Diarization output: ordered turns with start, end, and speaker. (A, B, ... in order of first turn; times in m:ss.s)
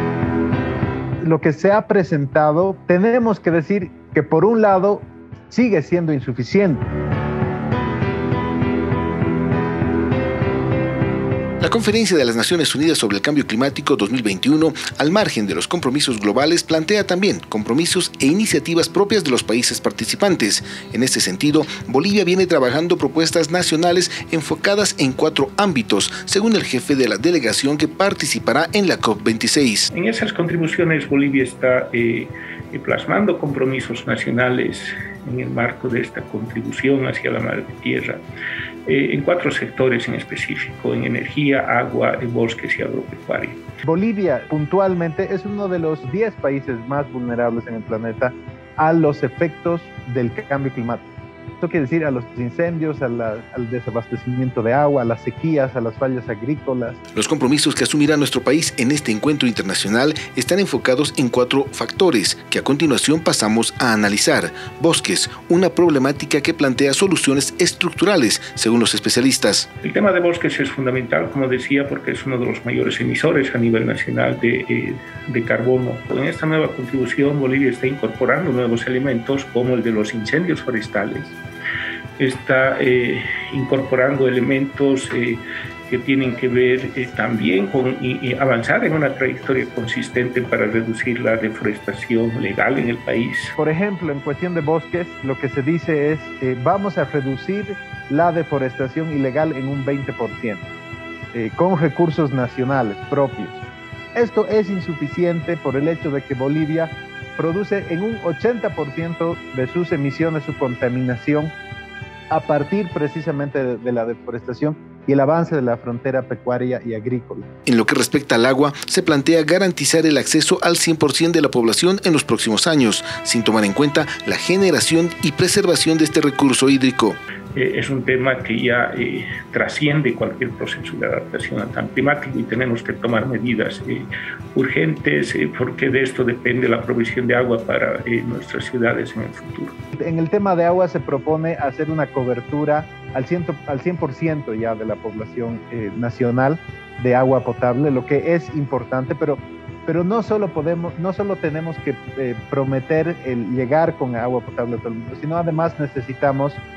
0:01.2-0:06.9 A
0:11.6-0:29.9 B
0:29.9-0:38.2 C
0:38.9-0:43.6 C
0:43.8-0:51.1 A
0:51.6-0:57.0 A
0:57.1-1:09.7 B
1:09.8-1:21.4 C
1:22.2-1:33.6 C
1:33.6-1:40.6 A
1:41.3-1:43.6 A
1:44.2-1:51.5 A
1:52.3-1:57.5 A
1:57.7-2:07.2 B
2:07.6-2:19.7 C
2:20.0-2:36.6 A